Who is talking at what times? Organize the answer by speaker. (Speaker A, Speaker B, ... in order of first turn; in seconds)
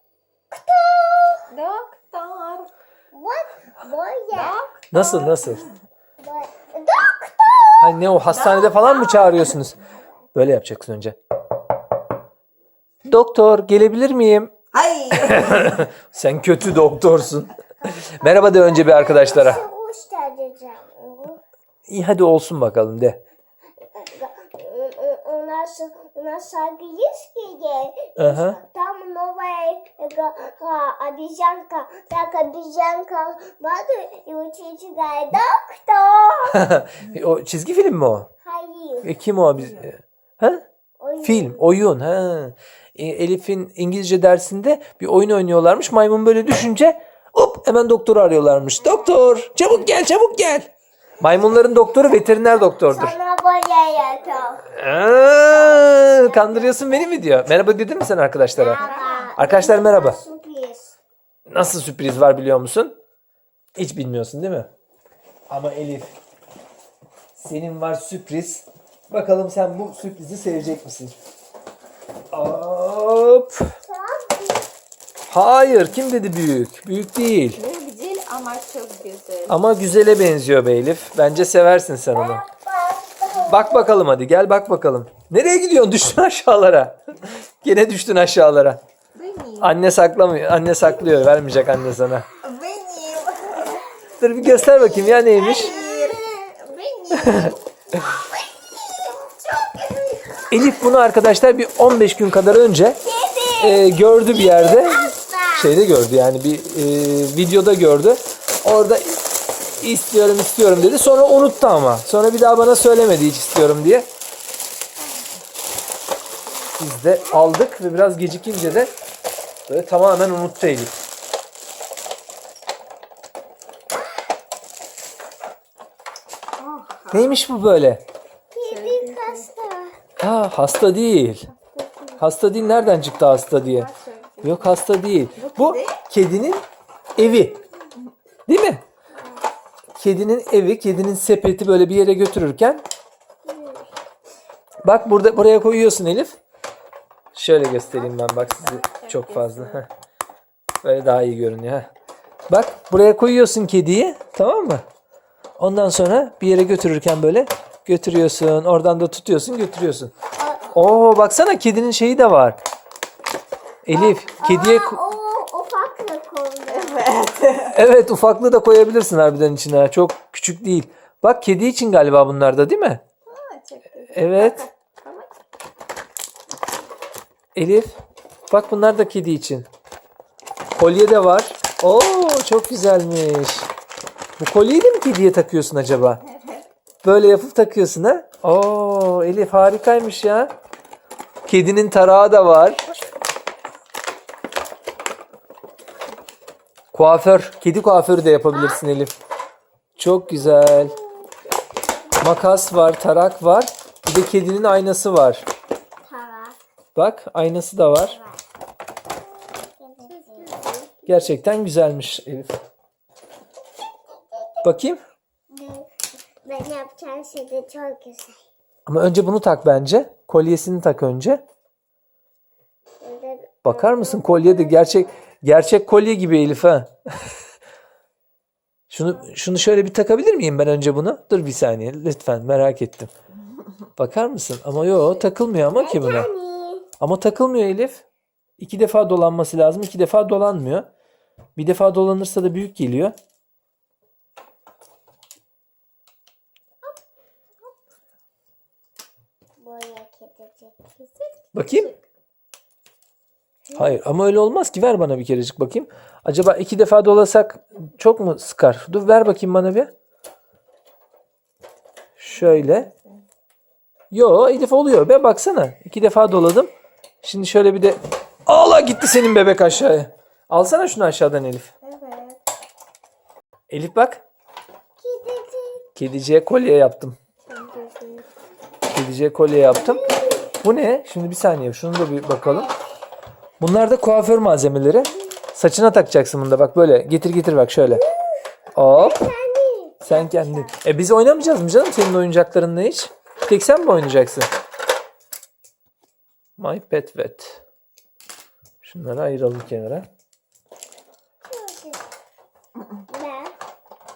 Speaker A: 0.5-1.5, 3.1-4.6, 6.2-8.0, 18.1-21.4, 23.9-36.6, 38.4-39.2, 41.0-41.7, 48.8-49.4, 52.4-54.7, 55.5-56.9, 58.6-61.0, 73.8-74.7, 82.1-83.9, 95.5-96.3, 103.0-105.8, 128.5-130.0, 139.2-139.4, 143.4-143.9, 160.4-160.7, 163.9-167.1, 198.5-198.9, 200.4-201.2, 206.0-206.6, 208.0-208.4, 209.7-210.6, 214.3-214.7, 215.5-215.9, 216.4-218.4, 223.0-225.1, 235.8-236.9, 249.6-250.9, 253.7-253.9, 275.0-275.8, 279.8-280.5, 282.4-282.8, 287.9-290.8, 301.5-302.0, 303.1-303.6
Speaker B: 1.5-2.7, 4.3-5.7, 8.3-9.5, 14.7-15.9, 58.6-59.4, 77.6-79.6, 89.2-89.8, 92.4-93.8, 94.8-100.8, 126.6-127.4, 128.7-129.5, 131.5-132.2, 133.0-134.8, 135.4-136.0, 148.1-149.8, 166.7-167.8, 173.3-175.4, 210.1-211.4, 234.8-235.2, 251.0-252.0, 262.3-263.3, 271.8-272.4, 277.5-278.3
Speaker C: 4.9-5.7, 7.8-9.8, 10.3-11.2, 13.0-14.5, 15.1-19.6, 21.9-23.2, 28.2-28.6, 36.5-38.3, 39.0-40.6, 41.2-50.7, 51.2-53.2, 54.7-60.2, 61.5-63.0, 63.8-64.7, 65.5-66.1, 67.4-71.2, 72.3-73.7, 75.3-77.6, 79.5-82.4, 83.5-88.8, 89.6-92.3, 94.2-95.8, 97.2-97.5, 100.5-103.0, 103.6-109.2, 109.8-114.1, 116.8-118.9, 119.7-120.9, 127.1-128.0, 130.2-131.5, 132.2-133.9, 134.4-137.6, 138.5-138.8, 140.0-142.8, 144.8-146.4, 147.3-149.9, 150.8-151.9, 152.5-154.8, 155.6-160.1, 160.7-162.6, 163.8-165.0, 167.7-173.0, 174.1-174.7, 177.6-177.9, 178.5-179.7, 180.8-183.7, 184.4-186.2, 187.0-190.5, 191.5-192.8, 196.9-199.1, 200.0-200.9, 202.2-205.4, 206.9-208.2, 211.1-212.6, 214.6-215.0, 218.9-221.4, 223.7-226.9, 228.9-233.1, 234.0-236.3, 237.0-238.0, 238.6-240.9, 241.6-243.2, 251.5-251.9, 253.8-259.9, 262.2-262.9, 264.1-266.7, 267.2-271.7, 273.7-274.2, 276.0-277.2, 278.9-280.1, 280.6-282.7, 283.6-288.0, 288.8-289.3, 290.0-294.5, 296.6-297.6, 298.8-300.1